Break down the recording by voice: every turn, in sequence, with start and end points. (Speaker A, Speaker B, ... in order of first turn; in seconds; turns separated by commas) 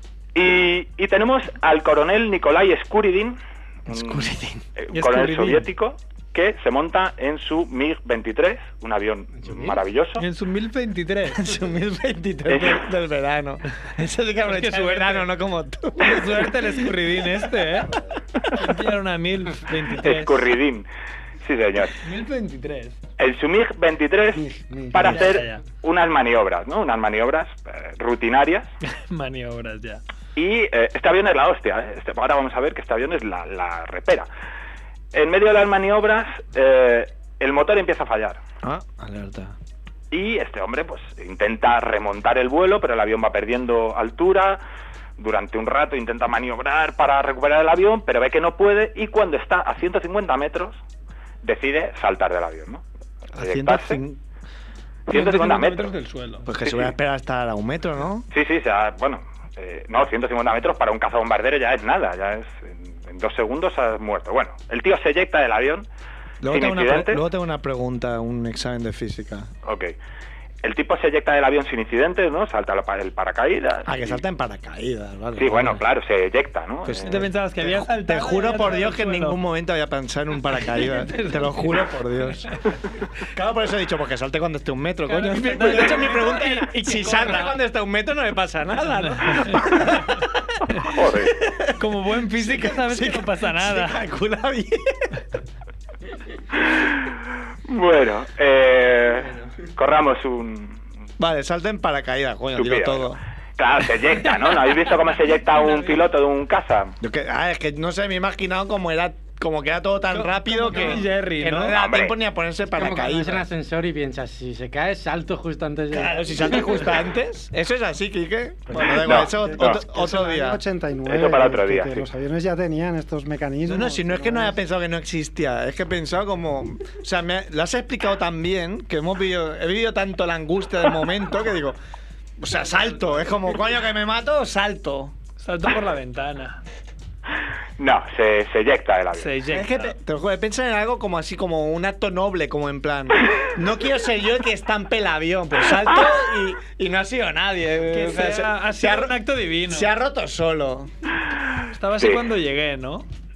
Speaker A: 0.3-10.2, Speaker B: 3.9-4.6, Speaker C: 4.9-5.7, Speaker C: 10.2-11.5, Speaker B: 11.3-16.7, Speaker A: 12.5-12.9, Speaker C: 14.4-15.2, Speaker C: 16.0-17.9, Speaker C: 18.6-20.3, Speaker A: 20.0-20.9, Speaker A: 21.4-22.0, Speaker C: 22.0-23.0, Speaker A: 23.2-28.7, Speaker D: 24.3-25.2, Speaker C: 25.0-25.6, Speaker C: 29.1-30.0, Speaker A: 30.3-34.3, Speaker A: 35.1-38.4, Speaker B: 38.6-39.5, Speaker A: 40.1-44.6, Speaker A: 45.2-50.8, Speaker A: 51.4-52.8, Speaker B: 53.3-54.2, Speaker A: 53.4-54.0, Speaker A: 55.1-55.9, Speaker C: 55.1-56.5, Speaker B: 56.4-58.2, Speaker A: 56.6-56.9, Speaker A: 58.3-65.9, Speaker B: 66.4-69.5, Speaker A: 66.5-67.2, Speaker A: 69.6-70.0, Speaker A: 70.6-74.2, Speaker B: 73.8-75.8, Speaker A: 75.3-77.2, Speaker B: 76.8-82.5, Speaker C: 77.0-79.4, Speaker C: 80.5-81.9, Speaker B: 83.3-90.3, Speaker C: 85.0-87.6, Speaker C: 88.8-90.1, Speaker A: 90.8-91.3, Speaker B: 91.4-91.8, Speaker C: 91.8-94.0, Speaker B: 92.3-95.0, Speaker A: 96.6-100.8, Speaker B: 101.2-103.2, Speaker A: 102.5-107.0, Speaker C: 105.6-106.0, Speaker B: 107.0-113.5, Speaker C: 110.1-111.7, Speaker E: 110.8-111.7, Speaker A: 111.7-112.2, Speaker E: 112.7-116.8, Speaker B: 115.9-120.6, Speaker D: 118.7-124.6, Speaker A: 118.9-119.8, Speaker A: 121.1-122.1, Speaker B: 123.7-131.8, Speaker B: 132.4-135.1, Speaker C: 135.4-136.6, Speaker A: 137.8-139.3, Speaker C: 139.1-139.9, Speaker B: 139.5-149.1, Speaker C: 147.9-149.9, Speaker B: 149.7-150.9, Speaker C: 151.7-153.1, Speaker A: 152.0-152.2